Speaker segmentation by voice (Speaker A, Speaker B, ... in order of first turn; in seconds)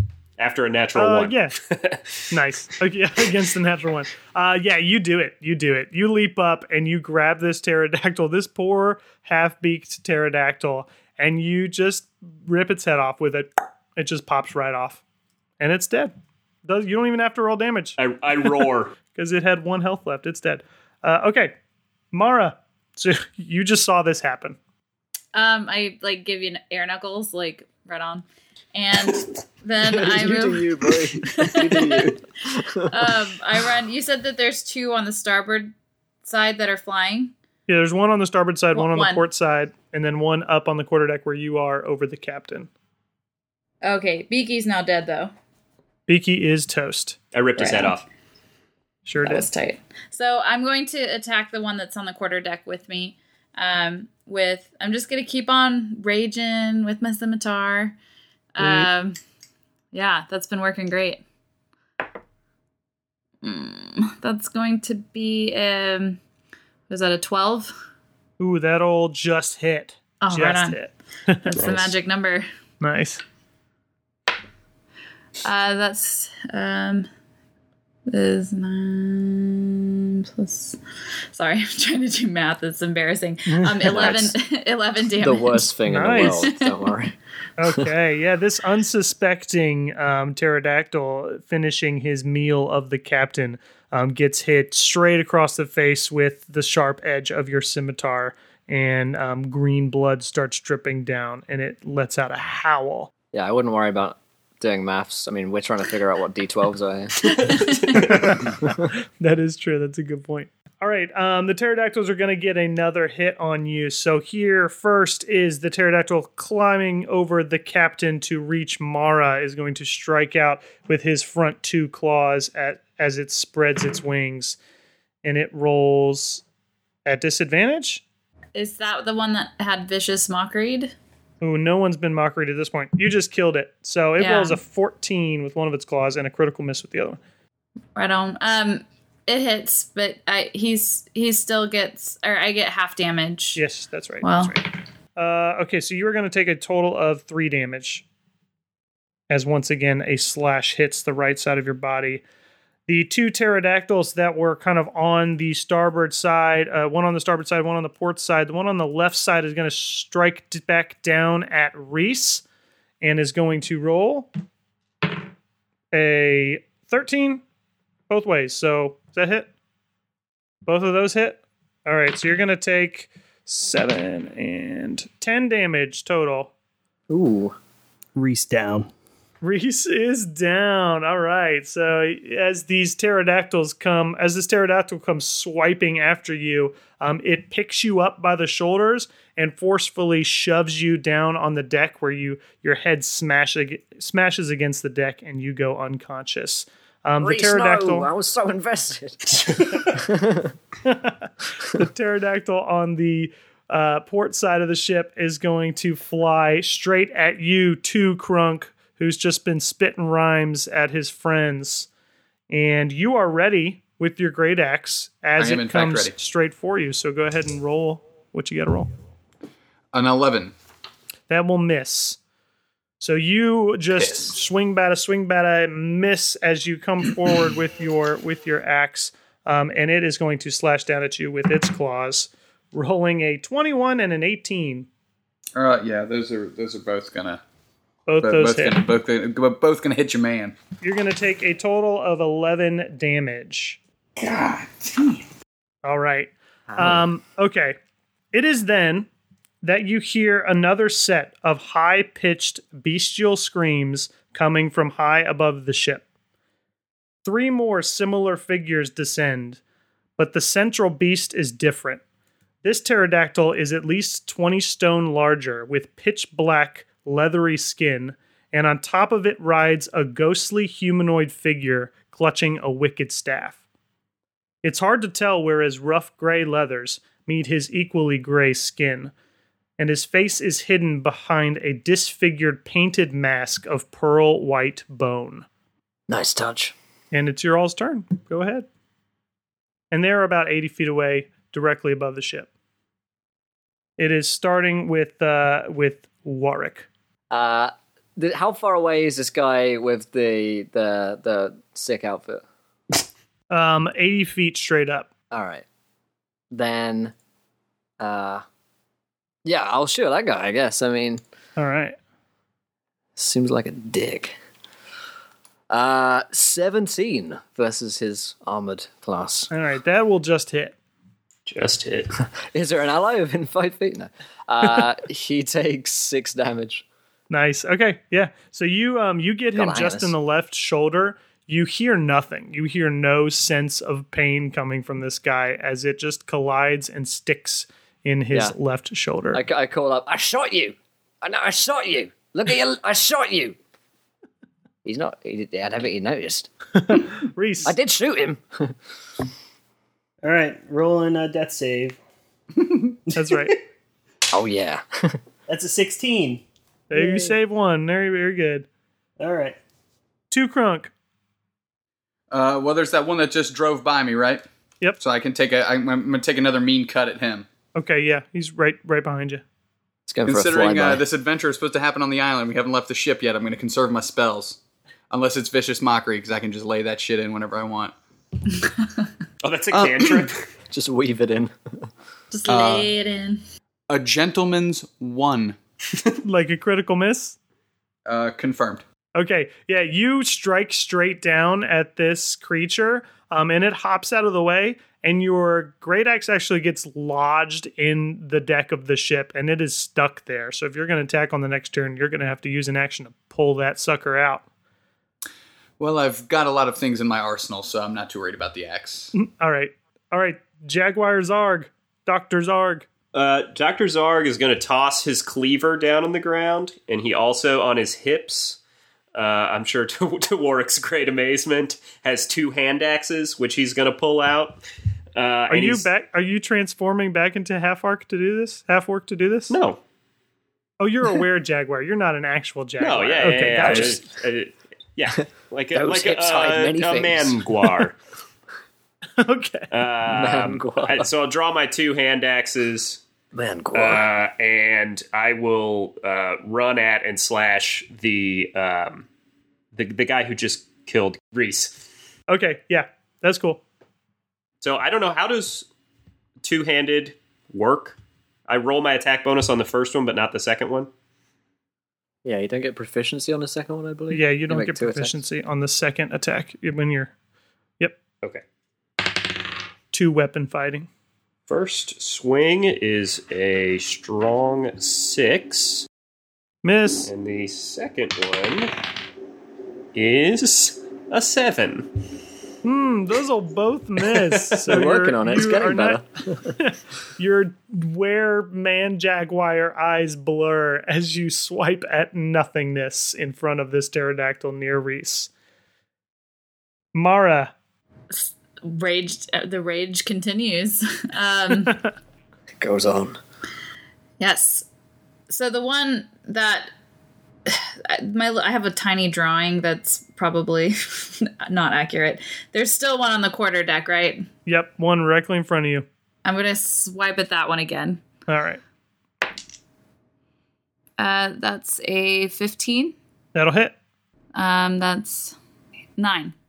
Speaker A: 0.4-2.1, 18.0-18.9, 47.3-48.0, 71.5-71.9, 321.5-322.1, 379.4-380.5, 413.1-418.6, 419.1-424.6, 425.1-425.9, 429.5-429.8, 432.8-437.9, 439.7-443.0, 443.7-449.1, 449.7-451.7, 454.6-455.6, 456.4-458.0, 458.5-460.9, 471.5-475.9, 477.1-478.7, 479.9-481.9
Speaker B: 0.9-1.5, 2.3-15.0, 15.6-16.1, 16.6-18.0, 19.1-21.5, 22.1-24.6, 37.7-42.7, 46.1-47.2, 49.0-49.5, 58.6-58.9, 68.4-71.5, 72.8-73.2, 83.5-84.2, 85.9-86.5, 87.6-103.1, 107.9-108.4, 109.2-124.6, 125.2-126.4, 127.0-128.0, 131.4-137.2, 143.6-144.6, 145.2-148.0, 149.3-152.2, 152.9-162.4, 163.0-164.3, 165.9-167.4, 168.1-169.5, 170.6-176.5, 179.4-198.1, 200.8-211.9, 212.5-218.9, 221.3-222.2, 223.0-234.9, 238.1-238.8, 240.8-243.8, 245.8-247.8, 248.3-249.1, 249.6-256.0, 257.2-259.6, 260.2-262.0, 262.6-273.6, 274.6-279.1, 279.8-285.5, 287.1-288.7, 289.9-292.5, 294.0-296.9, 303.5-305.1, 311.6-311.9, 319.5-320.8, 327.3-339.4, 346.8-347.7, 353.1-353.5, 356.9-358.7, 360.3-360.9, 367.8-369.4, 386.2-387.4, 389.2-404.4, 409.1-412.9, 425.5-429.5, 430.8-434.0, 439.2-439.7, 452.3-453.6, 464.1-467.1, 469.9-470.9, 476.6-477.1, 482.6-486.0, 486.6-495.3, 496.9-497.5, 514.5-515.9, 518.3-518.6, 523.3-523.7
Speaker C: 25.3-30.7, 31.2-32.2, 32.9-35.7, 36.2-37.3, 38.7-39.2, 43.8-45.3, 47.6-48.0, 49.2-58.0, 58.5-59.2, 59.9-61.2, 63.4-66.2, 66.9-67.7, 70.2-70.9, 71.4-72.5, 75.4-77.1, 78.1-80.8, 81.3-86.9, 107.5-107.8, 128.5-130.9, 134.2-134.6, 137.9-143.6, 144.2-144.6, 382.3-383.4, 498.1-501.8, 504.2-504.7, 505.3-506.7, 507.5-514.3, 516.2-518.0, 521.0-523.0, 524.3-525.4, 526.0-526.3
Speaker D: 29.8-33.2, 83.9-84.3, 85.2-87.1, 103.3-107.3, 177.1-177.6, 197.2-200.5, 246.7-247.0, 286.1-286.7, 297.3-302.4, 305.3-305.6, 306.5-307.1, 308.0-308.4, 309.4-311.2, 313.2-314.4, 315.7-319.5, 322.2-326.8, 329.5-330.1, 339.3-343.6, 344.8-346.5, 347.6-348.7, 354.3-355.2, 370.1-371.0, 380.7-381.9, 433.6-433.9, 435.7-437.6, 440.1-441.1, 443.3-444.0, 462.2-465.2, 484.7-486.6, 502.6-503.2
Speaker E: 178.2-178.9, 350.2-352.0, 355.5-357.3, 359.2-359.6
Speaker F: 215.4-216.1, 219.9-220.5, 235.6-237.4, 238.2-240.6, 244.2-245.2, 352.6-352.9, 362.3-364.4, 365.0-367.5, 370.3-374.6, 375.1-377.9, 379.7-380.3, 382.5-382.9, 383.9-385.6, 388.1-388.8, 405.8-409.1